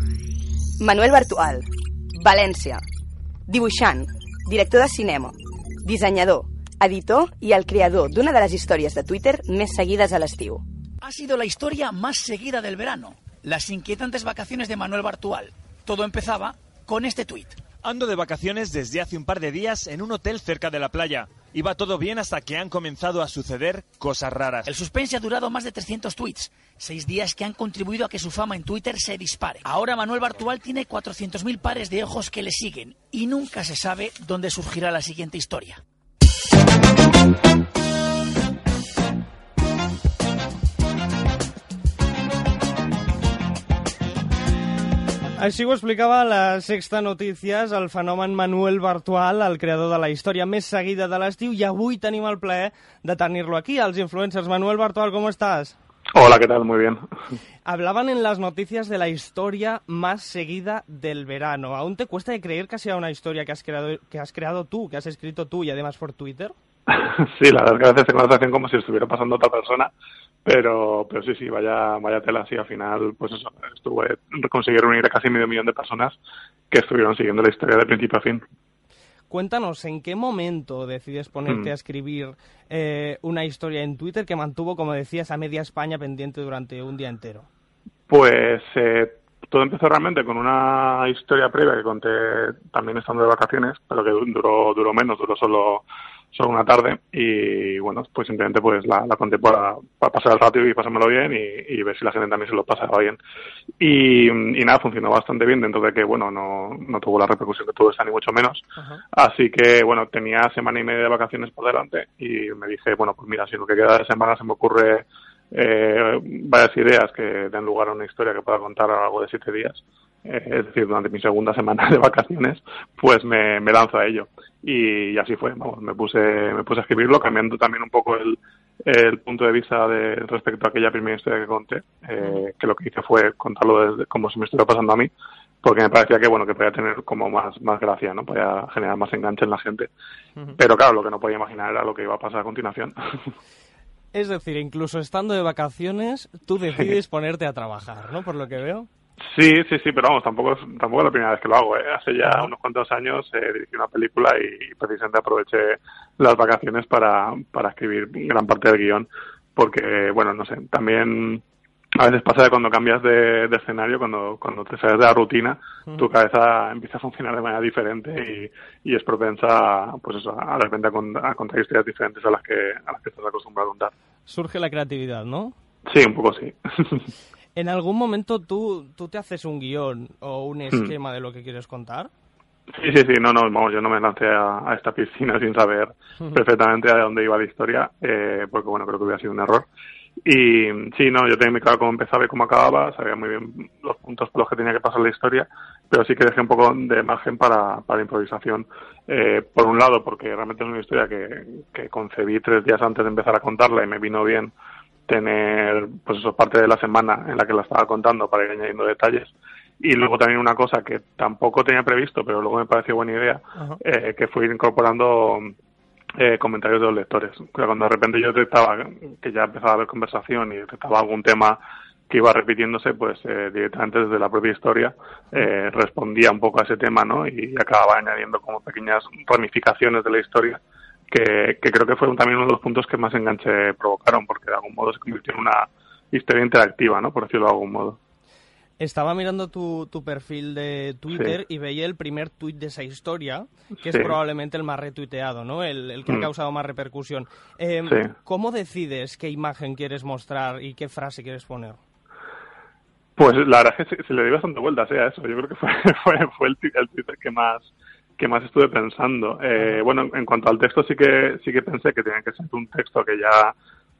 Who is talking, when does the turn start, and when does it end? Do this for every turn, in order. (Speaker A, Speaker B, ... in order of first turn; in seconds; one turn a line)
Speaker A: 0.8-2.8
Speaker A: 3.5-10.6
Speaker B: 11.0-17.6
Speaker C: 17.8-24.6
Speaker B: 24.6-35.8
Speaker D: 45.4-55.7
Speaker E: 56.1-57.0
Speaker D: 57.6-66.5
Speaker E: 66.9-69.9
Speaker E: 70.5-76.2
Speaker E: 76.7-78.4
Speaker D: 79.3-87.5
Speaker E: 88.1-103.2
Speaker E: 103.8-135.1
Speaker D: 108.8-109.0
Speaker E: 135.6-139.9
Speaker E: 140.6-143.3
Speaker D: 144.1-148.9
Speaker E: 149.2-161.4
Speaker D: 152.2-152.5
Speaker E: 162.0-173.9
Speaker D: 174.3-175.5
Speaker E: 175.9-177.1
Speaker D: 177.6-182.1
Speaker E: 182.7-189.7
Speaker E: 190.2-204.5
Speaker E: 205.1-215.5
Speaker E: 216.2-238.0
Speaker D: 238.8-251.8
Speaker E: 243.8-244.2
Speaker E: 253.2-263.5